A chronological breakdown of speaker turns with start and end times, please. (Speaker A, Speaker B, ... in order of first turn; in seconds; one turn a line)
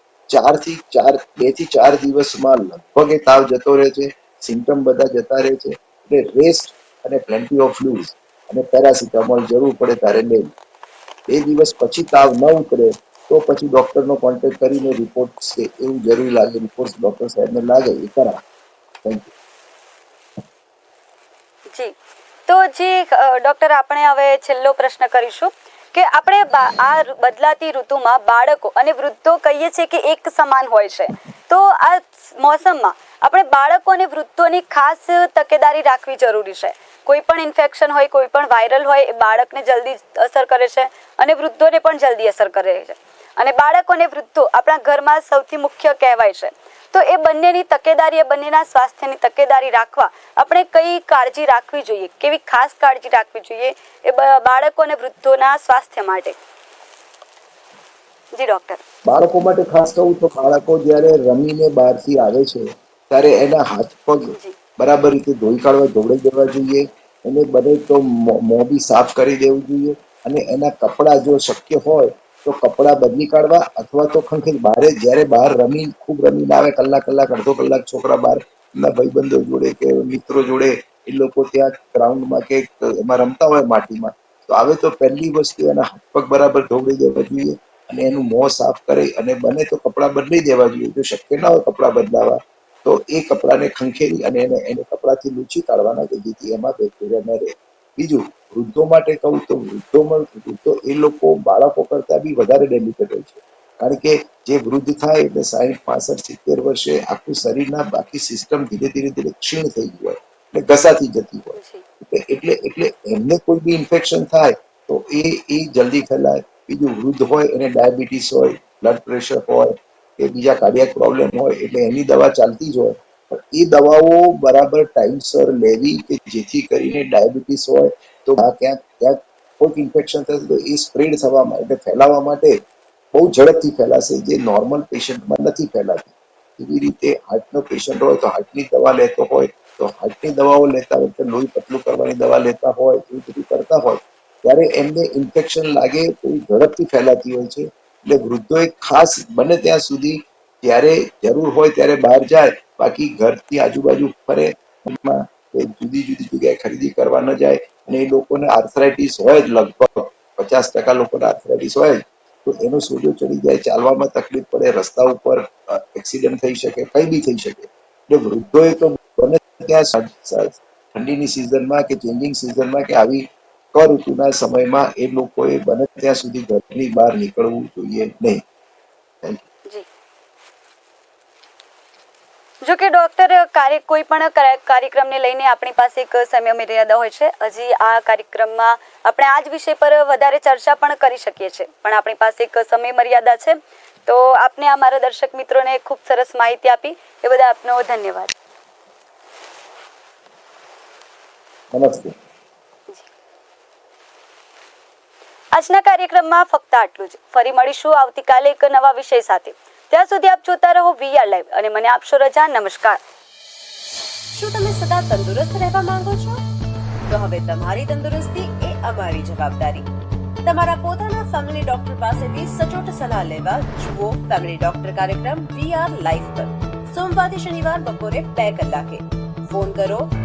Speaker A: 0.3-10.5
Speaker A: 11.3-18.4
Speaker A: 19.0-19.3
Speaker B: 22.5-56.4
Speaker B: 58.4-58.8
Speaker A: 59.1-132.6
Speaker B: 64.3-64.6
Speaker B: 111.6-111.8
Speaker A: 133.1-178.4
Speaker B: 182.6-198.3
Speaker A: 201.7-202.1
Speaker B: 205.5-213.0
Speaker C: 214.4-216.4
Speaker C: 217.1-219.8
Speaker C: 220.4-229.0
Speaker C: 229.5-229.9